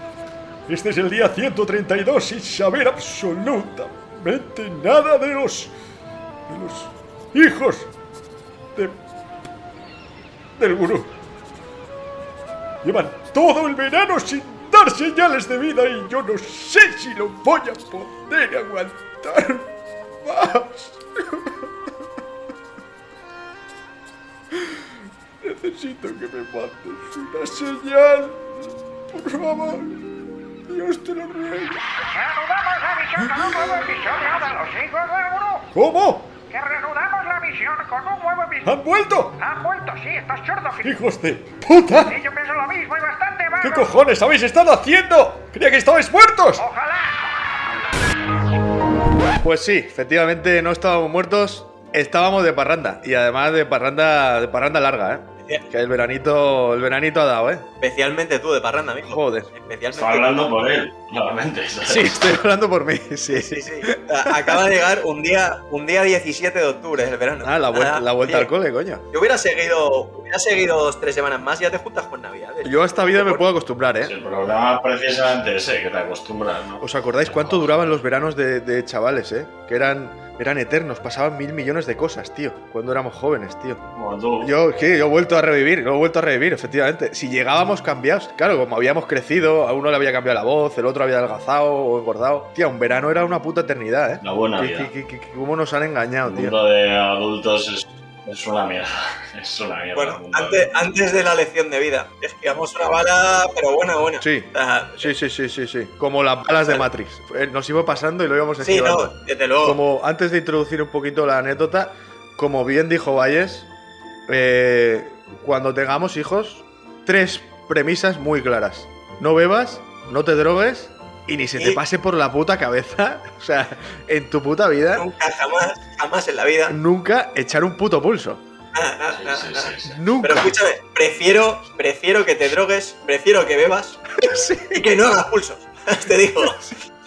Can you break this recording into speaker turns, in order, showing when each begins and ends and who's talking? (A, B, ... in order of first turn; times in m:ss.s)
0:00.7-0:05.7 A
0:06.5-0:07.9 A
0:10.6-0:11.1 A
0:12.8-0:19.6 A
0:20.2-0:20.8 A
0:25.4-0:28.4 A
0:26.4-0:27.7 B
0:29.1-0:30.0 A
0:30.7-0:31.8 A
0:32.3-0:35.6 C
0:35.6-0:36.4 A
0:36.5-0:38.7 C
0:38.7-0:39.5 A
0:39.5-0:40.8 C
0:40.8-0:42.2 A
0:42.2-0:43.6 C
0:43.6-0:46.7 A
0:46.6-0:47.1 C
0:49.3-0:57.6 B
0:57.8-1:00.5 D
0:59.1-0:59.5 B
0:59.9-1:02.3 E
1:01.8-1:04.6 B
1:03.3-1:08.5 D
1:07.4-1:09.0 B
1:09.1-1:13.4 D
1:12.6-1:14.1 B
1:14.0-1:17.8 E
1:16.8-1:23.8 B
1:23.9-1:24.5 E
1:24.4-1:36.6 B
1:34.2-1:34.9 E
1:36.2-1:40.7 E
1:39.9-1:45.1 D
1:44.2-1:53.7 B
1:48.6-1:49.8 D
1:54.3-2:05.0 B
2:04.9-2:06.8 D
2:06.7-2:08.4 B
2:08.7-2:14.0 D
2:09.1-2:10.0 E
2:09.8-2:10.5 B
2:14.2-2:14.8 B
2:14.7-2:16.6 D